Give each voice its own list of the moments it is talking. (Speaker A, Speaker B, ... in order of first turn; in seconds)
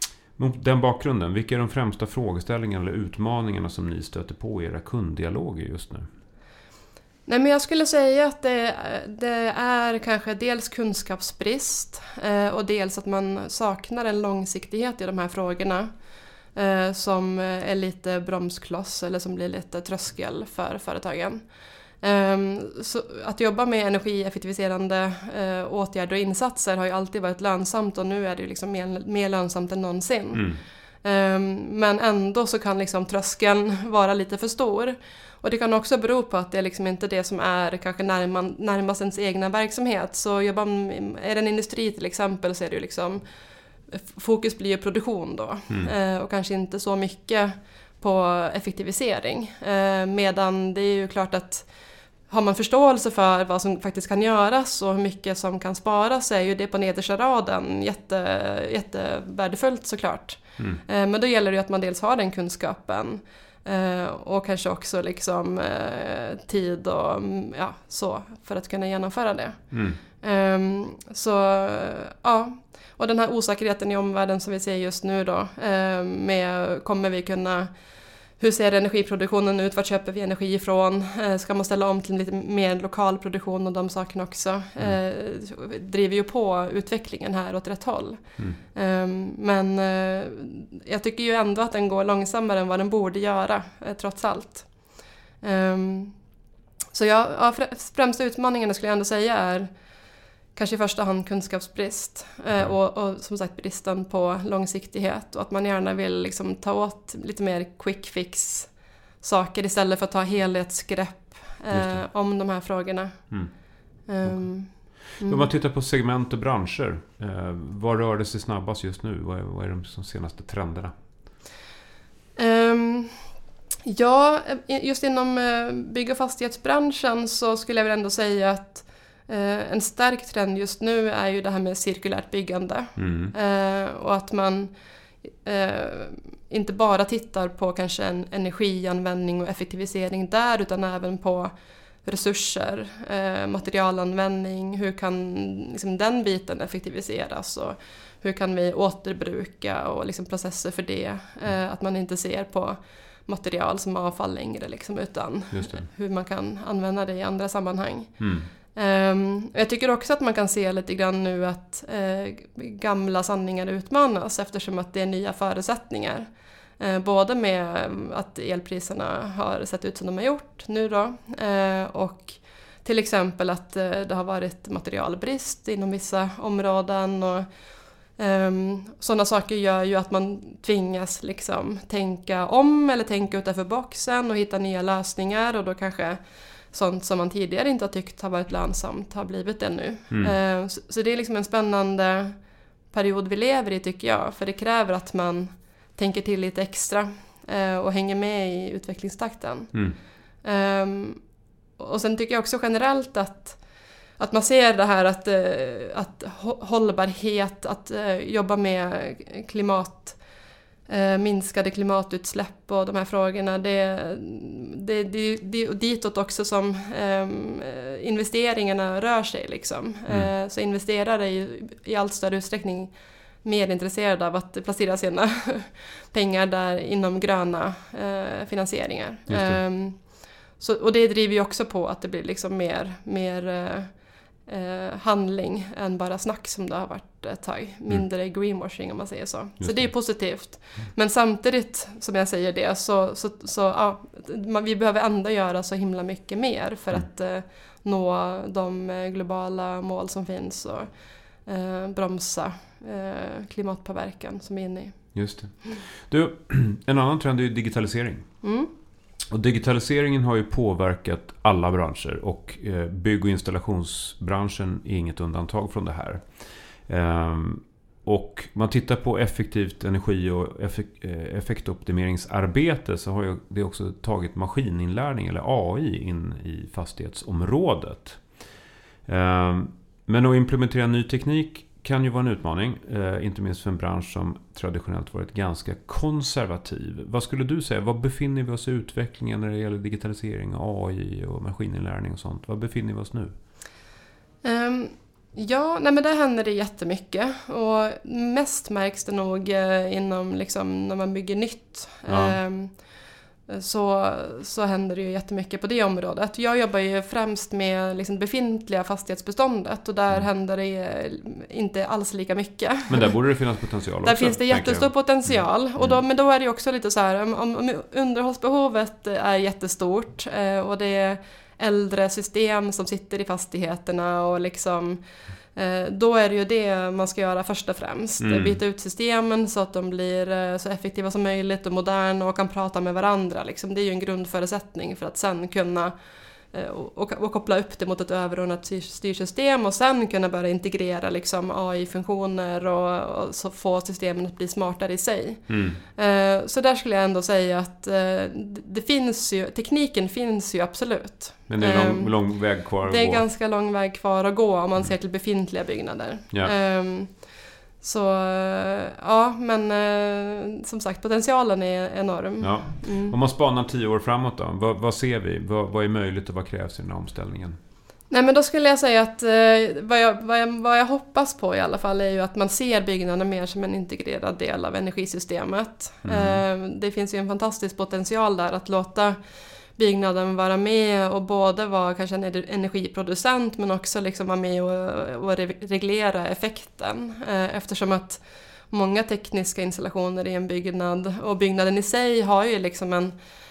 Speaker A: 0.3-6.0, 30.3-30.6, 69.7-70.0, 111.7-112.0, 114.2-120.9, 132.9-133.3, 155.5-155.9, 158.2-158.5, 229.3-229.6, 239.6-239.9, 255.1-258.3, 259.3-278.2, 279.0-293.3, 302.1-302.4, 312.9-316.0, 328.2-328.6, 345.5-345.8, 351.5-353.2, 362.4-367.6, 376.0-376.4
Speaker B: 7.2-15.9, 16.5-21.4, 22.0-43.3, 43.9-51.7, 52.3-77.7, 78.4-94.8, 95.4-96.1, 96.9-99.7, 100.5-113.5, 114.0-115.5, 122.3-123.3, 123.8-134.7, 135.3-141.5, 142.0-177.5, 178.2-192.4, 192.9-201.2, 201.8-203.6, 204.2-210.2, 210.9-250.9, 251.4-255.1, 258.4-258.7, 294.4-302.8, 303.5-313.2, 314.0-325.0, 325.5-336.0, 336.5-363.1, 368.1-379.2, 379.7-393.1